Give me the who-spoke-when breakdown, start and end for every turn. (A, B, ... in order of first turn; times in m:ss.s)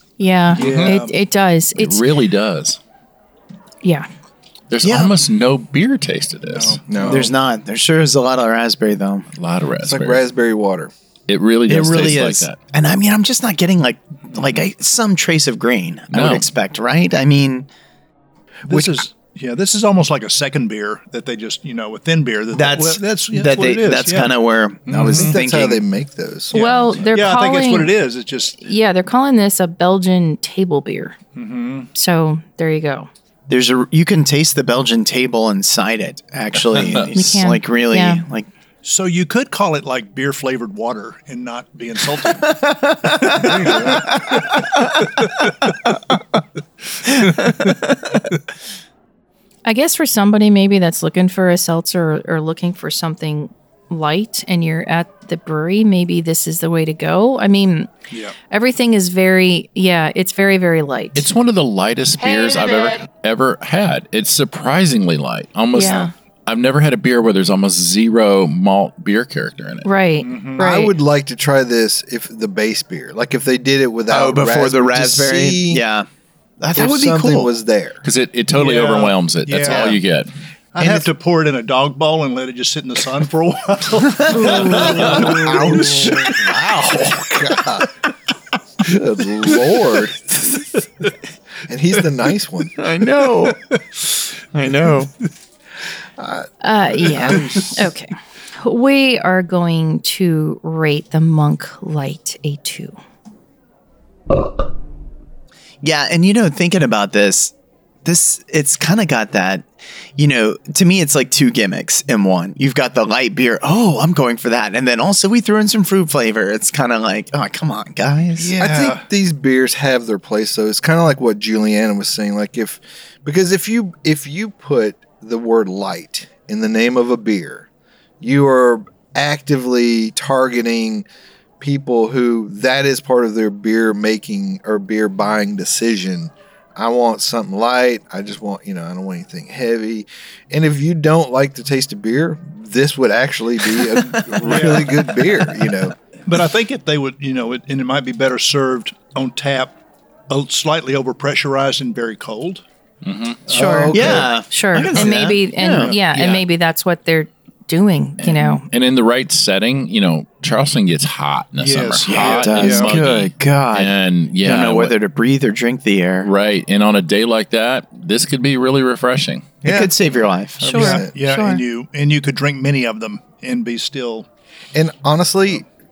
0:00.2-0:02.0 A
0:00.5-0:00.9 B
0:00.6-0:01.2 C
0:01.8-0:02.8 B
0:04.7-0:06.8 B
0:04.8-0:05.1 D
0:06.5-0:07.3 C
0:06.9-0:07.3 E
0:07.1-0:09.3 D
0:09.4-0:10.2 B
0:09.8-0:10.9 E
0:11.3-0:12.6 B
0:11.7-0:17.7 D
0:16.1-0:16.4 B
0:18.7-0:19.0 E
0:18.7-0:25.4 C
0:22.5-0:25.8 D
0:25.1-0:27.1 E
0:26.5-0:28.6 C
0:26.5-0:28.0 A
0:28.6-0:31.2 A
0:31.4-0:31.9 C
0:31.9-0:33.1 A
0:33.5-0:38.5 D
0:36.7-0:37.1 B
0:37.1-0:38.2 A
0:38.8-0:44.5 C
0:42.3-0:46.2 D
0:43.5-0:44.0 E
0:47.1-0:48.2 D
0:47.1-0:47.6 C
0:49.6-0:57.9 A
0:58.5-1:01.3 A
1:01.2-1:09.9 B
1:05.7-1:06.1 A
1:09.8-1:10.9 A
1:10.2-1:10.6 C
1:10.6-1:15.8 E
1:14.1-1:16.1 D
1:16.6-1:17.5 D
1:16.8-1:18.0 E
1:18.0-1:20.3 B
1:18.5-1:20.0 C
1:20.8-1:26.3 C
1:20.8-1:21.1 E
1:24.2-1:26.9 D
1:24.6-1:27.9 E
1:28.8-1:30.4 E
1:31.7-1:32.8 E
1:32.8-1:33.6 D
1:33.2-1:33.8 C
1:34.5-1:35.1 D
1:36.2-1:37.6 E
1:36.6-1:43.0 A
1:37.3-1:37.6 C
1:45.8-1:47.5 D
1:48.0-1:58.6 D
1:58.4-1:59.0 C
1:58.6-2:07.7 E
2:08.2-2:11.1 E
2:11.6-2:26.0 E
2:24.4-2:25.0 C
2:26.3-2:29.7 C
2:30.3-2:32.6 C
2:33.0-2:33.4 B
2:33.5-2:34.2 C
2:33.5-2:34.4 E
2:33.5-2:38.7 A
2:33.9-2:35.9 D
2:36.1-2:36.4 B
2:38.2-2:45.0 B
2:41.6-2:43.0 C
2:42.1-2:46.3 D
2:46.2-2:49.6 B
2:49.6-2:49.9 E
2:49.6-2:50.9 D
2:50.6-2:51.6 A
2:50.6-2:51.1 E
2:50.7-2:54.3 C
2:54.7-2:55.6 E